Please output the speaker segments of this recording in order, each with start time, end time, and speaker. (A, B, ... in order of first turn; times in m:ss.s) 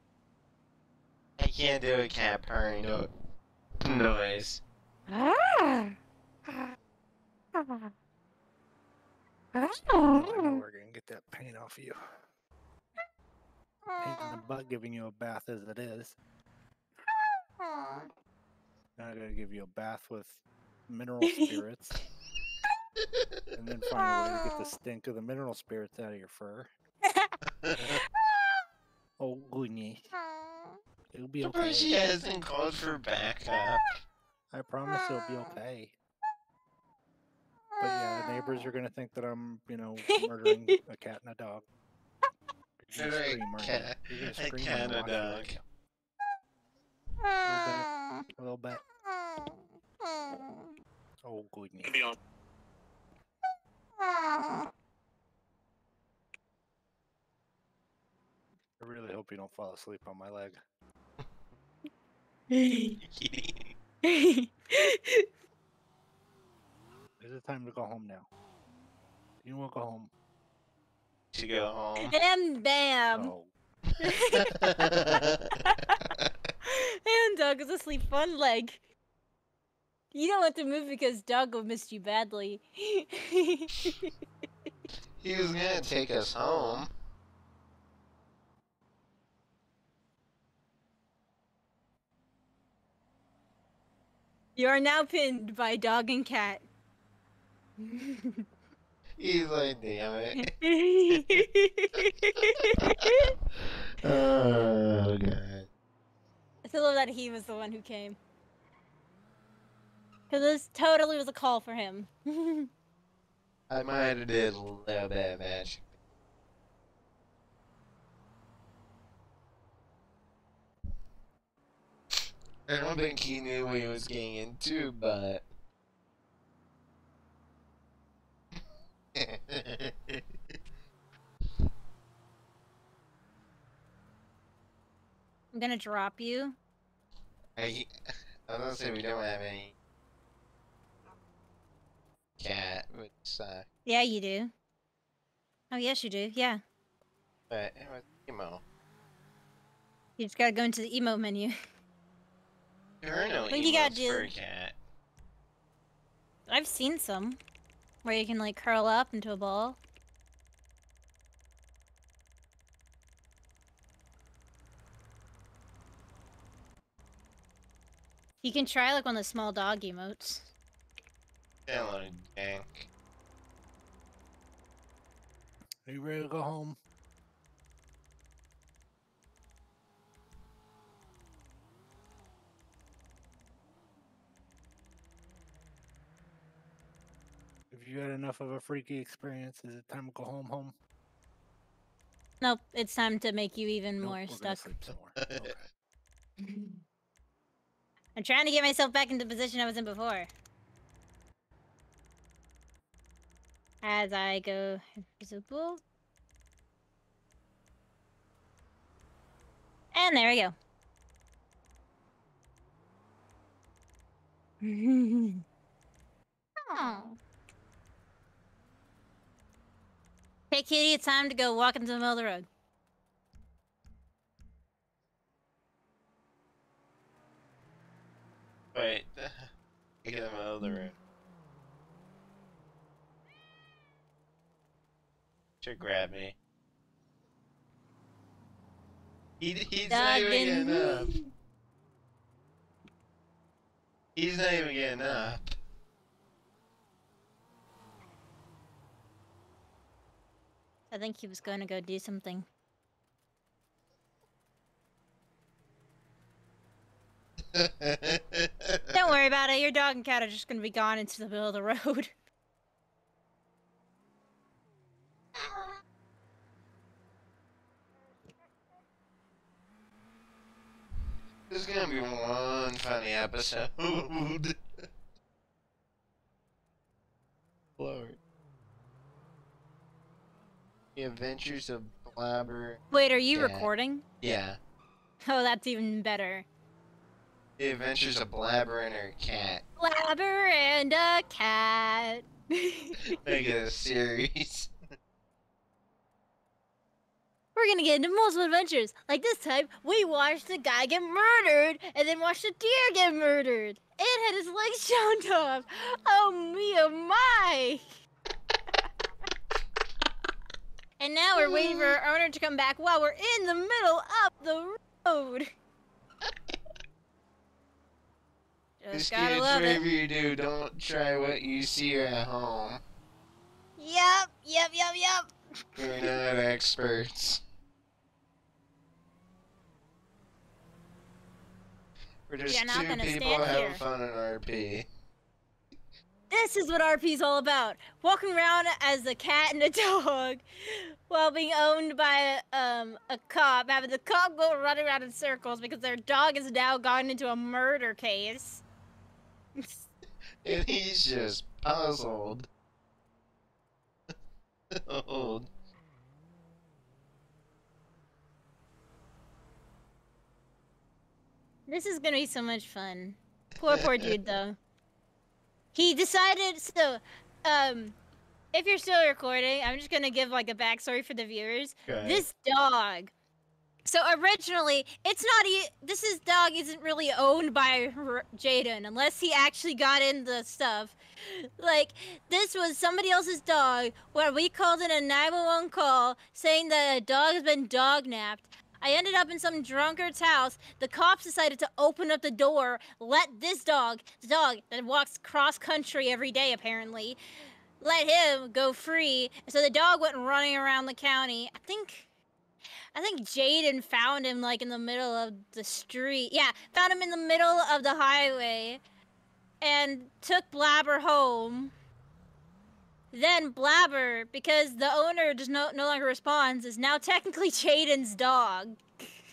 0:01.4-0:03.1 A
0:03.8-0:04.6 A
0:05.1-0:05.9 B
0:07.6-0:07.9 B
0:09.6-0:10.4 B
0:09.8-0:12.0 C
0:13.9-0:14.4 B
0:14.0-0:16.2 C
0:17.6-0:18.1 B
0:19.0-0:22.0 C
0:21.2-0:21.6 B
0:23.5-0:26.7 C
0:24.0-0:24.5 B
0:27.1-0:27.3 B
0:27.6-0:28.0 A
0:29.2-0:30.1 C
0:30.4-0:30.7 B
0:31.1-0:31.9 C
0:31.4-0:33.9 A
0:34.5-0:35.9 C
0:37.8-0:38.7 B
0:37.8-0:41.7 C
0:40.1-0:40.8 B
0:42.8-0:45.6 C
0:42.9-0:45.5 A
0:47.2-0:48.2 B
0:47.4-0:48.8 C
0:49.2-0:50.7 B
0:51.2-0:52.1 C
0:54.0-0:54.7 B
0:58.8-1:00.6 C
1:02.5-1:03.0 B
1:03.0-1:03.7 A
1:04.0-1:05.3 B
1:07.2-1:08.3 C
1:09.4-1:10.1 C
1:11.3-1:12.1 A
1:12.0-1:13.3 B
1:13.1-1:13.5 C
1:14.0-1:14.6 B
1:14.4-1:15.5 A
1:15.7-1:16.1 B
1:16.6-1:18.8 B
1:20.1-1:24.0 B
1:25.2-1:26.9 A
1:34.6-1:36.6 B
1:37.8-1:38.4 B
1:39.2-1:40.5 A
1:40.4-1:43.3 B
1:43.6-1:45.7 A
1:46.6-1:48.2 B
1:50.3-1:52.7 B
1:53.7-1:55.9 A
2:02.7-2:05.4 A
2:09.1-2:10.3 A
2:15.5-2:16.6 B
2:17.6-2:17.9 A
2:18.5-2:19.7 A
2:22.4-2:23.7 A
2:23.9-2:24.5 B
2:25.7-2:26.6 B
2:27.5-2:28.6 A
2:30.2-2:31.5 B
2:33.0-2:34.8 A
2:33.5-2:34.3 B
2:36.5-2:37.4 B
2:38.0-2:39.8 B
2:48.4-2:50.5 B
2:51.7-2:52.9 A
2:55.9-2:56.8 C
3:07.7-3:10.8 C
3:12.4-3:14.7 B
3:14.0-3:15.6 C
3:15.2-3:15.5 A
3:16.4-3:16.8 B
3:18.2-3:20.3 B
3:23.8-3:25.8 B
3:29.9-3:30.5 B
3:34.6-3:35.4 B
3:36.6-3:37.2 B
3:40.5-3:42.5 B
3:48.7-3:49.5 A
3:50.0-3:51.0 A
3:55.6-3:56.4 A
3:59.4-4:01.1 A
3:59.9-4:01.3 B
4:04.2-4:05.5 A
4:10.9-4:12.5 B
4:17.5-4:19.0 A
4:18.9-4:22.1 B
4:31.5-4:34.9 A
4:37.8-4:38.2 A
4:41.0-4:42.8 A
4:42.9-4:44.0 B
4:43.3-4:43.7 A
4:44.2-4:44.6 A
4:45.2-4:46.5 B
4:47.6-4:49.6 A
4:49.8-4:53.2 B
4:53.1-4:54.7 A
4:57.6-5:07.8 B
5:11.0-5:15.5 B
5:11.4-5:12.0 A
5:18.8-5:19.8 B
5:18.9-5:22.8 A
5:23.8-5:26.2 B
5:25.8-5:27.4 A
5:32.3-5:34.9 A
5:32.5-5:33.8 B
5:36.3-5:48.6 B
5:50.4-5:52.5 A
5:54.7-5:55.5 A
6:01.7-6:04.6 B
6:03.7-6:04.1 A
6:05.7-6:08.0 B
6:08.5-6:13.1 B
6:11.9-6:12.2 A
6:13.9-6:37.2 B
6:37.8-6:42.1 B
6:42.9-6:48.8 B
6:49.6-6:51.7 B
6:53.1-6:59.1 B